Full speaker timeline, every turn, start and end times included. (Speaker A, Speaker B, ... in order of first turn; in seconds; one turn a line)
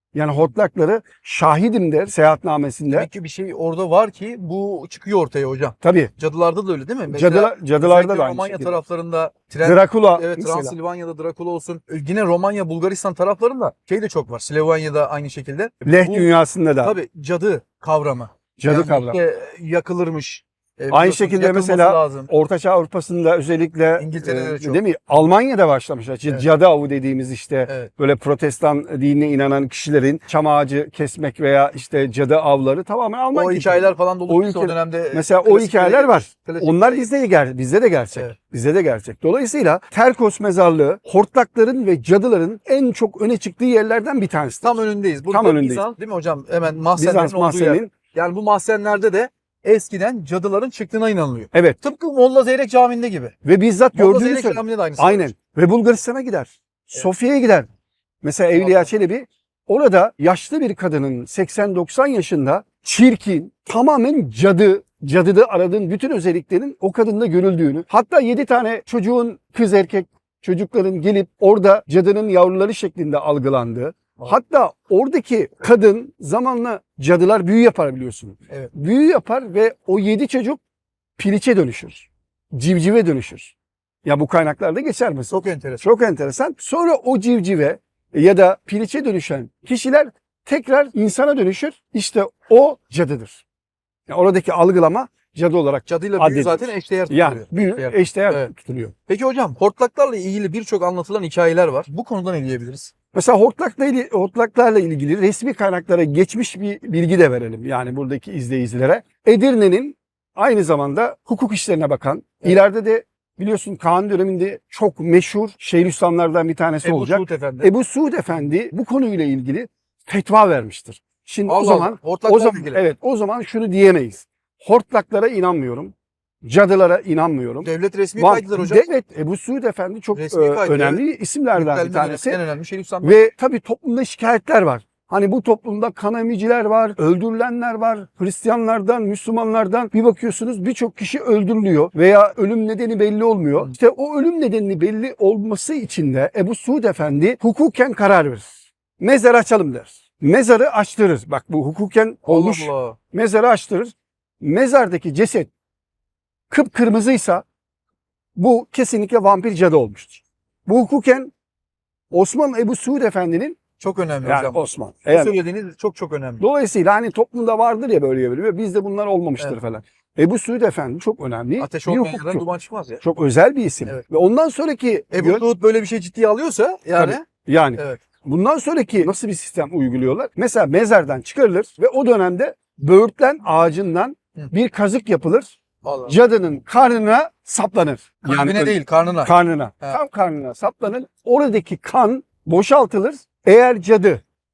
Speaker A: 0.1-3.1
Speaker B: 2.9-16.3
Speaker A: 5.8-6.1
Speaker A: 7.1-8.8
Speaker A: 9.6-10.8
Speaker A: 15.8-17.0
Speaker B: 16.8-22.3
Speaker A: 18.6-19.2
Speaker A: 20.9-44.7
Speaker B: 24.0-24.8
Speaker B: 33.3-37.1
Speaker B: 44.6-53.4
Speaker A: 45.3-45.9
Speaker A: 47.0-47.9
Speaker A: 51.5-51.8
Speaker A: 53.4-57.7
Speaker B: 53.9-55.3
Speaker A: 58.2-80.6
Speaker B: 58.5-58.9
Speaker A: 81.2-83.5
Speaker A: 84.0-93.4
Speaker B: 85.3-85.8
Speaker A: 94.1-98.9
Speaker B: 95.9-98.5
Speaker B: 99.1-102.9
Speaker A: 103.1-132.4
Speaker B: 116.8-117.7
Speaker B: 121.5-122.8
Speaker B: 127.6-128.9
Speaker B: 130.1-133.3
Speaker A: 133.0-155.5
Speaker B: 152.3-153.0
Speaker A: 156.5-157.4
Speaker A: 158.4-161.3
Speaker A: 162.1-163.6
Speaker B: 163.8-166.4
Speaker A: 164.2-165.4
Speaker A: 166.4-172.5
Speaker B: 171.6-173.0
Speaker A: 173.0-175.4
Speaker B: 175.1-177.2
Speaker A: 177.0-185.5
Speaker B: 177.8-178.0
Speaker B: 185.8-186.2
Speaker A: 186.1-194.2
Speaker B: 188.2-190.0